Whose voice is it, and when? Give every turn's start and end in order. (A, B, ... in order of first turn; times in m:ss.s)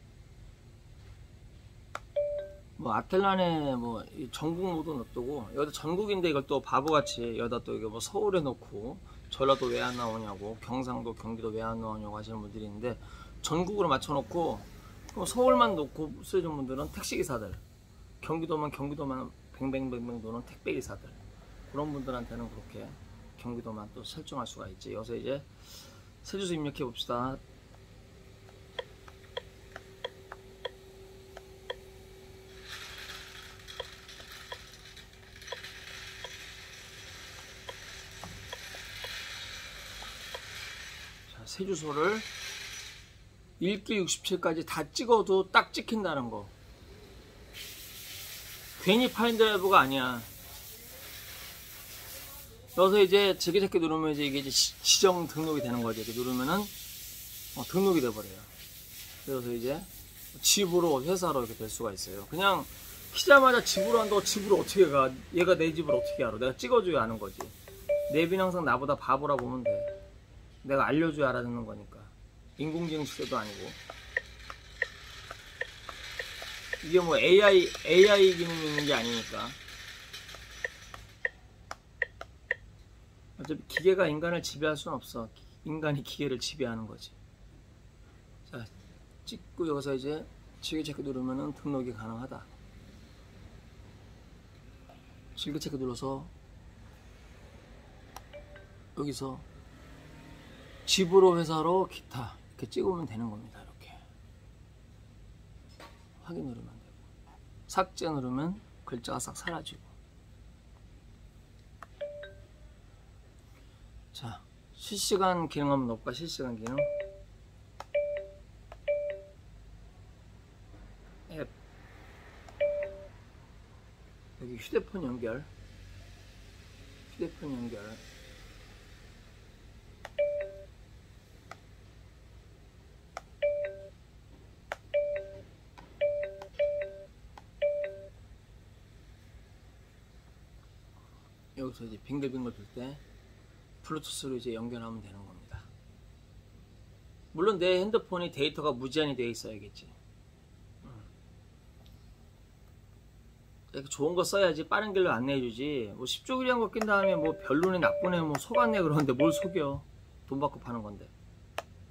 0:02.8-0:17.6 A
0:18.2-0:21.2 A
0:21.7-0:27.4 A
0:41.3-0:42.3 A
0:43.6-0:46.5 A
0:48.8-0:50.3 A
0:52.7-0:56.7 A
0:57.5-0:58.5 A
0:59.2-1:07.5 A
1:08.1-1:09.9 A
1:10.6-1:13.8 A
1:16.8-1:19.6 A
1:23.4-1:27.1 A
1:28.4-1:28.7 A
1:29.2-1:32.5 A
1:35.4-1:36.3 A
1:39.0-1:39.4 A
1:40.8-1:44.0 A
1:46.2-1:47.0 A
1:47.7-1:49.9 A
1:54.1-1:56.9 A
2:04.4-2:05.5 A
2:07.1-2:08.0 A
2:21.6-2:23.0 A
2:23.8-2:25.7 A
2:27.3-2:29.9 A
2:33.7-2:41.1 A